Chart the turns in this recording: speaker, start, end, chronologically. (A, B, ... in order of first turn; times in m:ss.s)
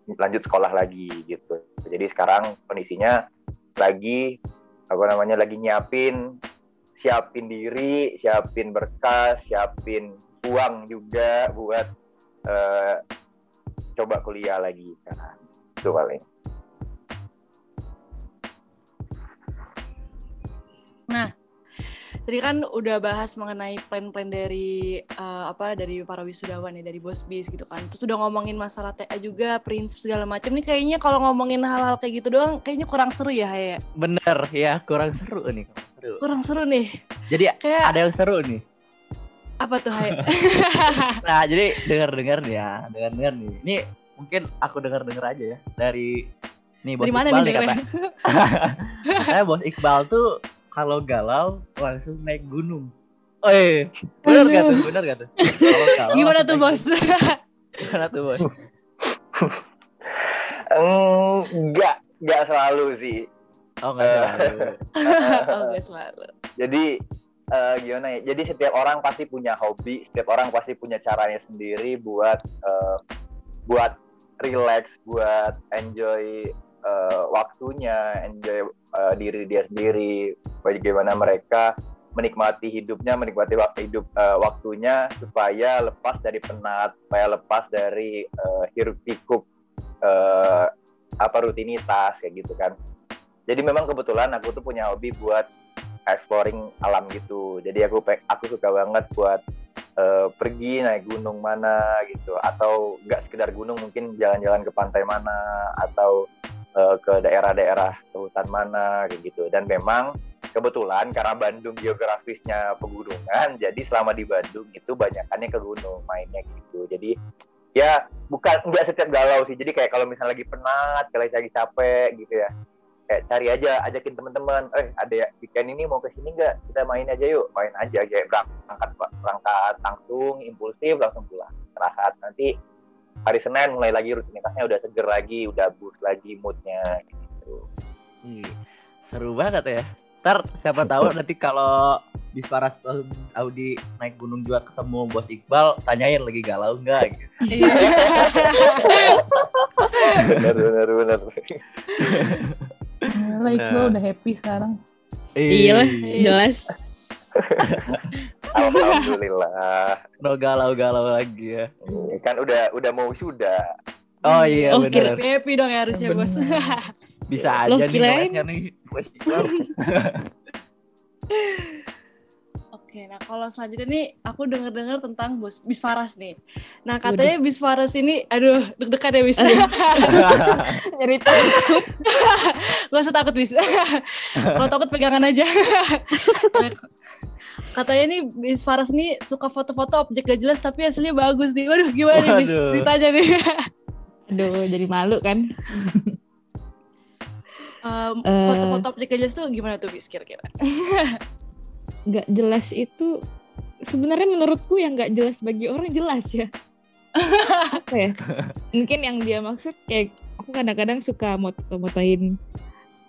0:00.2-0:03.2 A
0:03.8-0:04.3 A
0:04.9-0:06.2 A
0:07.0-0:11.9 A
0:12.5-0:13.0 A
0:14.0-0:16.2 A
0:22.3-0:33.8 B
0:34.0-0:36.2 C
0:36.2-0:36.9 B
0:37.3-0:38.6 C
0:37.6-0:38.0 B
0:39.6-0:41.2 B
0:41.2-0:46.2 C
0:46.8-0:52.9 C
0:47.0-0:48.2 B
0:53.4-0:56.8 C
0:54.3-0:54.9 B
0:55.4-0:57.4 B
0:57.8-0:58.5 C
0:59.4-1:03.3 A
1:03.8-1:04.8 C
1:04.0-1:05.8 A
1:05.0-1:06.3 B
1:06.6-1:06.9 A
1:07.6-1:13.0 A
1:13.7-1:29.4 A
1:30.0-1:30.7 A
1:31.2-1:32.8 A
1:33.5-1:35.5 A
1:36.1-1:39.4 A
1:40.0-1:46.2 A
1:46.8-1:57.1 A
1:57.8-2:02.5 A
2:03.1-2:12.5 A
2:13.3-2:17.7 A
2:18.2-2:27.8 C
2:20.8-2:21.1 A
2:27.5-2:29.2 B
2:27.6-2:29.0 A
2:28.9-2:29.2 D
2:30.2-2:30.4 C
2:30.2-2:31.6 A
2:32.0-2:32.7 C
2:33.1-2:34.8 E
2:33.5-2:34.0 C
2:35.4-2:36.4 C
2:35.5-2:36.8 D
2:36.0-2:36.8 B
2:37.4-2:40.0 A
2:37.6-2:38.0 C
2:38.6-2:39.0 B
2:40.2-2:41.7 C
2:41.8-2:43.6 A
2:44.2-2:46.9 B
2:44.3-2:45.2 C
2:44.7-2:45.1 D
2:45.9-2:46.8 E
2:47.3-2:50.2 C
2:47.7-2:48.4 D
2:49.4-2:49.6 B
2:51.4-2:51.8 B
2:52.7-3:00.6 B
2:57.0-2:57.3 D
2:59.4-3:01.9 D
3:00.1-3:00.7 C
3:01.3-3:06.8 B
3:06.2-3:06.6 D
3:07.7-3:13.6 B
3:12.1-3:12.9 C
3:14.3-3:16.2 D
3:17.8-3:21.2 B
3:18.2-3:18.8 D
3:22.1-3:23.1 D
3:23.9-3:26.5 D
3:27.2-3:27.8 B
3:27.7-3:28.2 D
3:28.8-3:32.3 D